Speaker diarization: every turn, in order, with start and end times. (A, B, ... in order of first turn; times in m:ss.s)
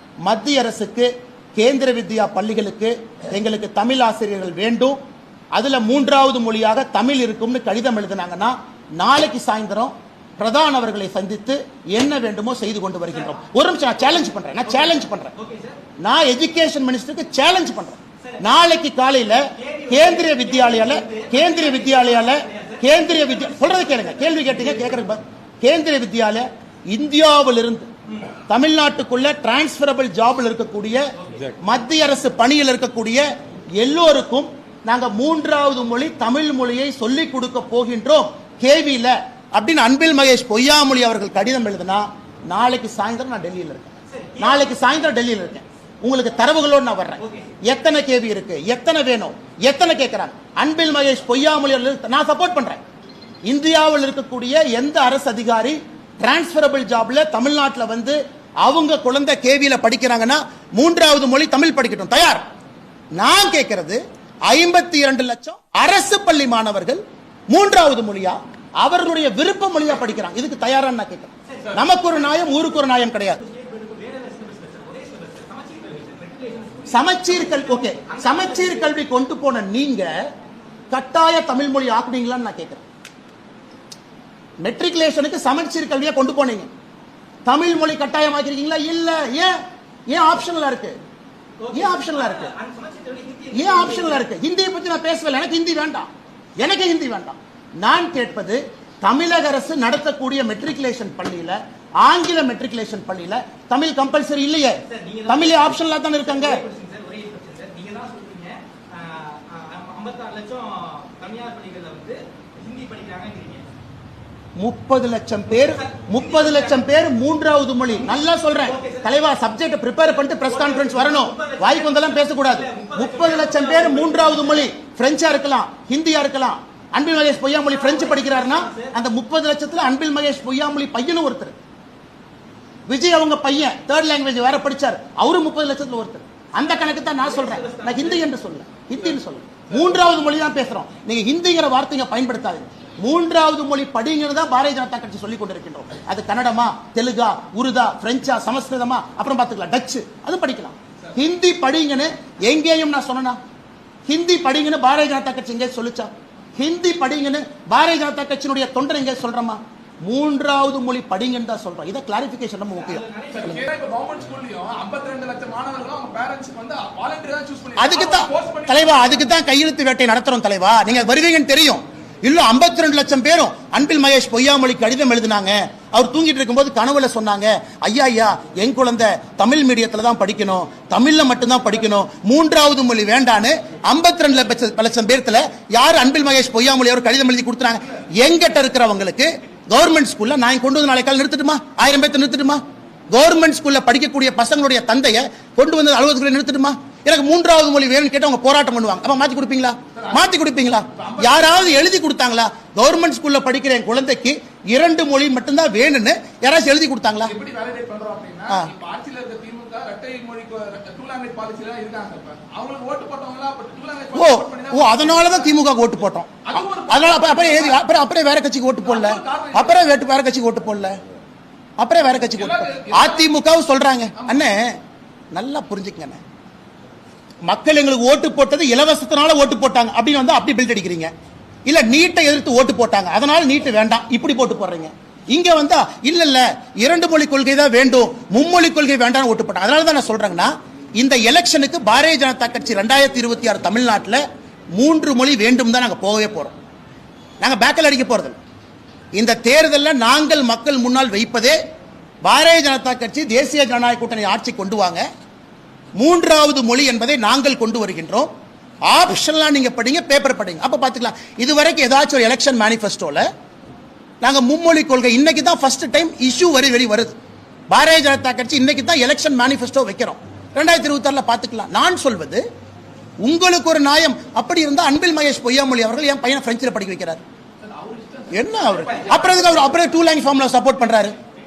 0:00.2-0:05.0 A
0:05.5-0:15.3 A
0:13.1-0:13.4 B
0:14.7-0:15.8 B
0:16.0-0:27.9 A
0:18.2-0:18.5 B
0:19.5-0:24.5 B
0:28.5-0:31.0 A
0:31.6-0:33.2 A
0:33.8-0:52.8 A
0:44.1-0:44.9 B
0:47.2-0:47.5 B
0:53.5-1:02.4 A
1:03.2-1:13.4 A
1:11.5-1:11.9 B
1:13.4-1:19.0 B
1:16.9-1:20.1 A
1:20.9-1:22.8 A
1:24.6-1:26.7 A
1:27.4-1:29.6 A
1:30.1-1:31.0 A
1:31.6-1:34.3 B
1:31.7-1:32.5 A
1:33.5-1:44.8 A
1:44.9-1:53.7 B
1:45.3-1:46.6 A
1:54.6-2:11.6 A
1:55.5-1:56.8 B
1:58.5-1:59.1 B
2:00.1-2:04.7 B
2:07.7-2:09.0 B
2:12.9-2:33.4 A
2:16.6-2:18.3 B
2:34.1-2:43.0 A
2:42.8-2:43.7 B
2:43.3-2:49.3 C
2:47.8-3:27.3 A
3:20.0-3:20.3 C
3:20.9-3:21.9 C
3:27.2-3:35.6 C
3:34.1-3:41.0 A
3:36.4-3:37.8 C
3:38.8-3:39.9 C
3:41.8-3:44.8 A
3:42.4-3:43.3 C
3:44.2-3:44.5 C
3:45.3-3:46.2 A
3:47.4-3:51.1 A
3:51.7-4:04.2 A
4:04.8-4:06.5 A
4:07.4-4:08.4 A
4:09.2-4:11.6 A
4:12.2-4:15.0 A
4:16.0-4:18.3 A
4:18.9-4:23.2 A
4:24.2-4:27.1 A
4:27.7-4:32.4 A
4:33.2-4:37.2 A
4:37.6-4:39.6 C
4:38.3-4:41.2 A